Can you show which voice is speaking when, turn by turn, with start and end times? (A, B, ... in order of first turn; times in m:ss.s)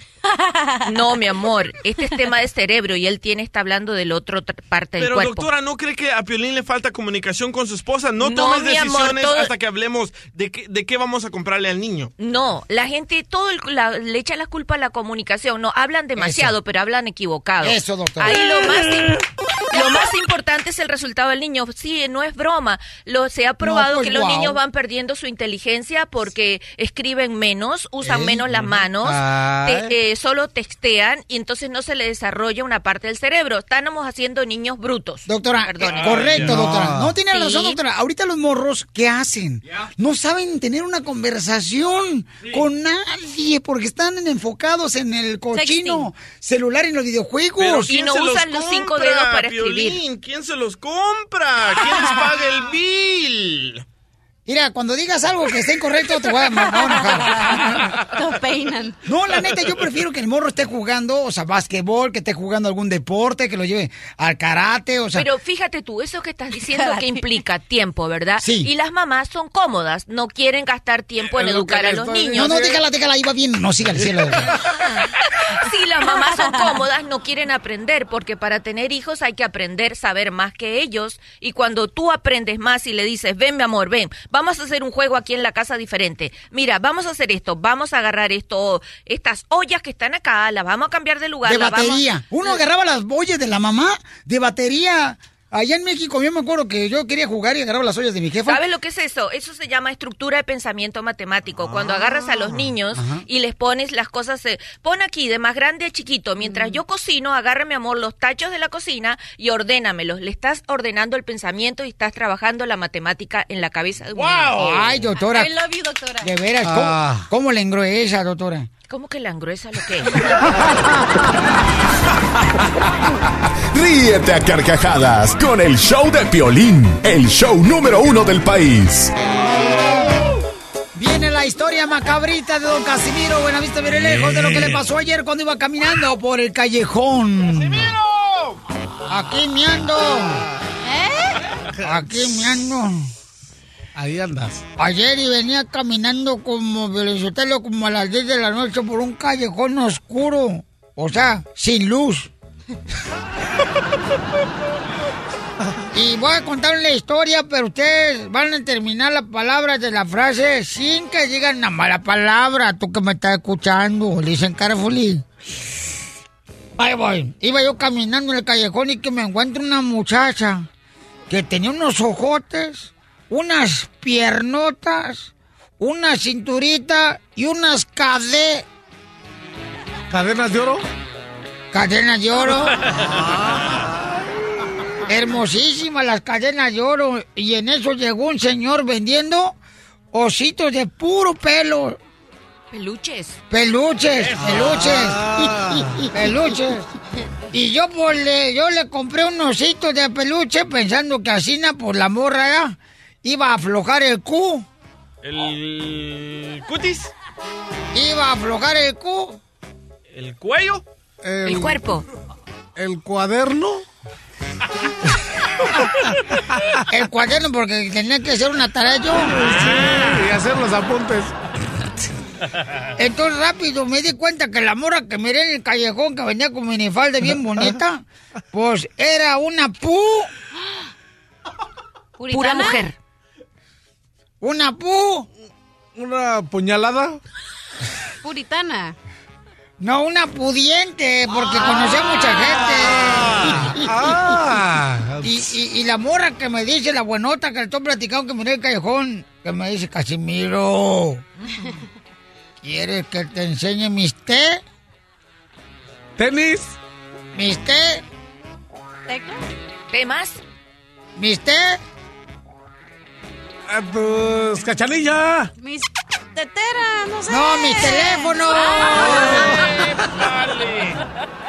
0:00.3-0:01.2 A
0:00.9-0:05.5 B
0:05.0-0:12.1 C
0:08.2-0:09.5 B
0:12.2-0:36.3 B
0:16.2-0:16.5 D
0:17.6-0:18.4 D
0:23.6-0:24.6 D
0:28.0-0:28.5 D
0:28.5-0:29.9 E
0:35.3-0:47.9 D
0:35.8-0:36.6 C
0:36.4-0:37.2 E
0:37.3-0:37.7 A
0:45.5-0:46.1 A
0:47.6-0:53.8 C
0:47.9-0:50.0 B
0:54.5-0:58.0 D
0:56.7-0:59.0 A
0:59.0-1:05.3 D
1:05.1-1:12.7 B
1:06.6-1:07.4 A
1:08.4-1:08.7 D
1:11.6-1:12.5 E
1:12.3-1:14.5 D
1:15.6-1:32.1 B
1:16.3-1:16.8 A
1:31.4-1:38.6 D
1:38.5-1:54.6 B
1:42.9-1:43.2 D
1:46.4-1:46.8 A
1:54.1-1:54.9 C
1:54.6-1:55.5 D
1:55.2-1:56.4 A
1:56.2-1:58.7 D
1:56.6-1:57.3 E
1:58.9-2:00.3 B
2:03.7-2:09.1 F
2:10.9-2:17.9 D
2:14.0-2:14.8 E
2:17.5-2:18.6 C
2:19.1-2:20.4 D
2:20.8-2:21.4 A
2:21.8-2:23.1 D
2:24.0-2:24.6 E
2:24.8-2:32.3 D
2:35.9-2:45.3 D
2:46.8-2:50.7 D
2:51.3-2:58.7 D
3:00.1-3:00.8 E
3:01.7-3:02.8 D
3:05.1-3:09.6 D
3:10.1-3:12.0 D
3:12.7-3:13.4 B
3:13.5-3:16.9 D
3:14.4-3:16.1 E
3:17.5-3:24.7 D
3:25.2-3:27.1 C
3:27.9-3:29.4 D
3:30.1-3:30.8 C
3:31.2-3:31.8 E
3:31.4-3:32.0 B
3:32.8-3:33.8 E
3:36.9-3:39.5 D
3:39.3-3:41.3 E
3:43.0-3:50.3 D
3:52.2-3:52.9 A
3:52.3-3:52.9 B
3:54.4-3:55.3 D
3:56.0-3:57.2 E
3:58.2-3:59.0 A
3:59.8-4:04.4 D
4:03.3-4:05.3 E
4:05.2-4:11.2 D
4:12.6-4:14.6 D
4:16.2-4:16.8 E
4:17.4-4:18.0 D
4:19.1-4:19.4 A
4:19.9-4:20.4 B
4:21.2-4:21.8 D
4:23.7-4:25.5 E
4:25.6-4:29.6 A
4:27.3-4:29.6 D
4:29.4-4:31.0 C